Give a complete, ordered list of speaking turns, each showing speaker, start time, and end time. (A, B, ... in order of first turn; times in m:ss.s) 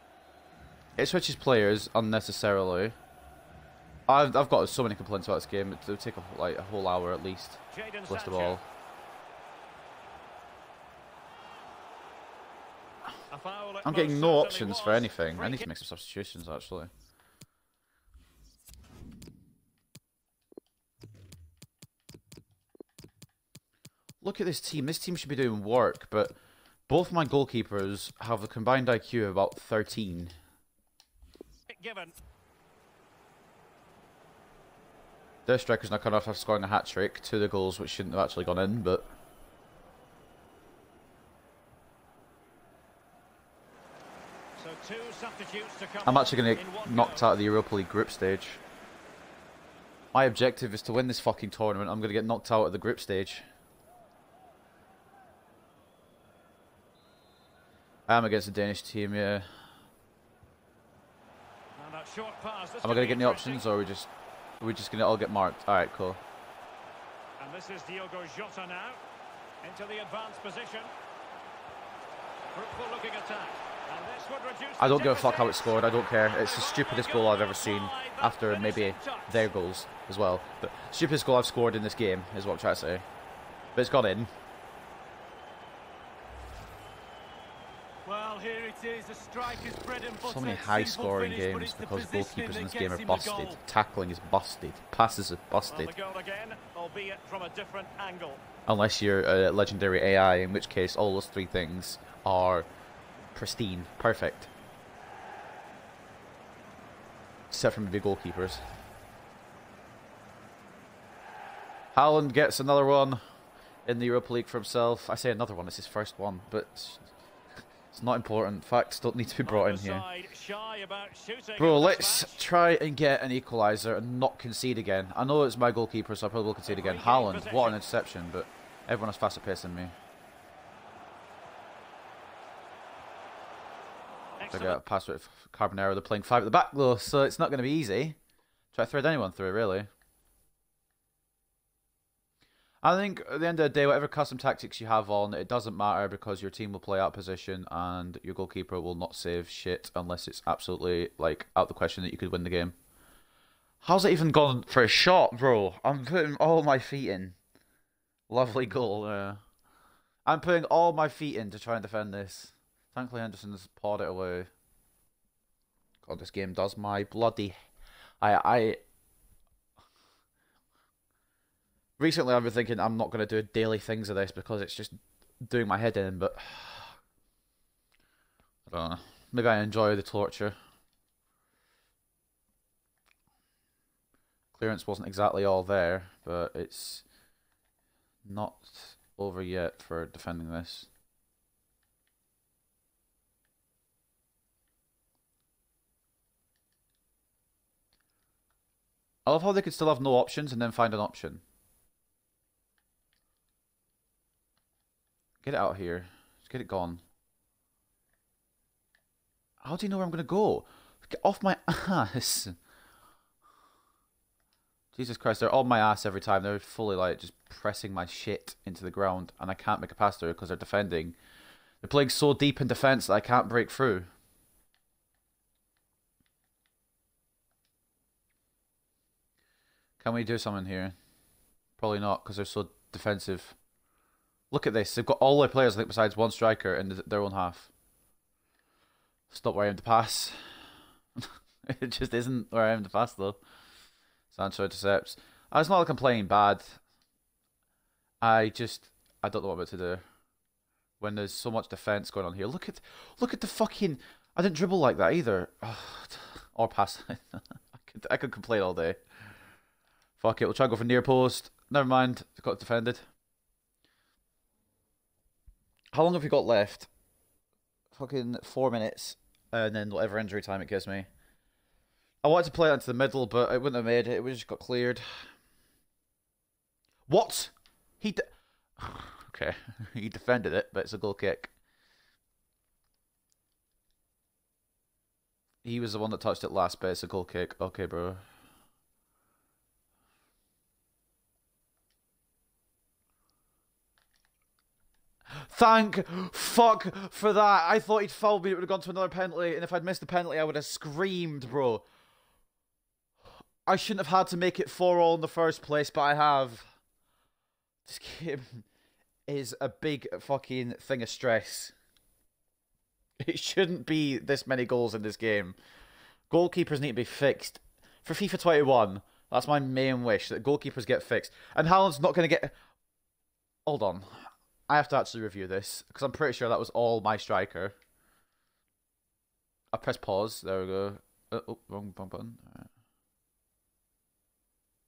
0:01.0-0:03.0 A
0:04.1-0:08.6 A
0:07.7-0:08.6 B
0:13.3-0:15.6 B
0:13.8-0:16.9 A
0:24.2-0:26.4 A
0:26.9-0:30.3 A
0:31.7-0:32.2 B
0:35.5-0:39.1 A
0:44.6-0:47.3 B
0:46.1-0:48.6 A
0:50.1-0:53.4 A
0:58.1-0:59.5 A
1:01.8-1:03.6 B
1:02.8-1:06.2 A
1:07.4-1:09.0 B
1:09.6-1:10.9 B
1:12.5-1:19.5 B
1:14.8-1:23.0 A
1:23.8-1:24.3 A
1:28.0-1:33.6 C
1:30.2-1:35.9 A
1:35.7-1:38.4 B
1:38.7-1:42.7 A
1:43.3-1:44.5 A
1:47.5-1:48.6 A
1:51.9-1:53.2 A
1:53.9-1:57.1 A
1:57.9-2:00.0 A
1:59.4-2:02.4 B
2:01.6-2:09.9 A
2:06.7-2:07.8 B
2:14.4-2:14.8 B
2:14.5-2:18.2 A
2:18.7-2:19.9 A
2:22.8-2:32.8 A
2:33.8-2:37.4 A
2:38.3-2:39.4 A
2:40.3-2:44.5 A
2:46.0-2:47.6 A
2:48.2-2:48.8 A
2:52.0-2:57.0 A
2:58.7-3:00.6 A
3:04.5-3:07.0 A
3:08.3-3:10.9 A
3:19.3-3:21.4 A
3:25.4-3:27.0 A
3:29.6-3:32.6 A
3:34.9-3:41.2 A
3:41.8-3:44.1 A
3:50.0-3:50.9 A
3:51.8-3:53.6 A
3:54.5-3:57.7 A
3:59.3-4:00.4 A
4:01.2-4:03.4 A
4:04.3-4:06.8 A
4:08.2-4:10.0 A
4:11.0-4:19.0 A
4:20.2-4:23.1 A
4:25.9-4:26.9 A
4:28.0-4:31.1 A
4:32.2-4:35.2 A
4:37.1-4:41.5 A
4:45.6-4:48.2 A
4:55.4-5:01.8 A
5:03.7-5:06.7 A
5:07.8-5:08.6 A
5:09.3-5:11.7 A
5:13.2-5:15.6 A
5:16.3-5:22.5 A
5:23.7-5:27.8 A
5:29.7-5:32.7 A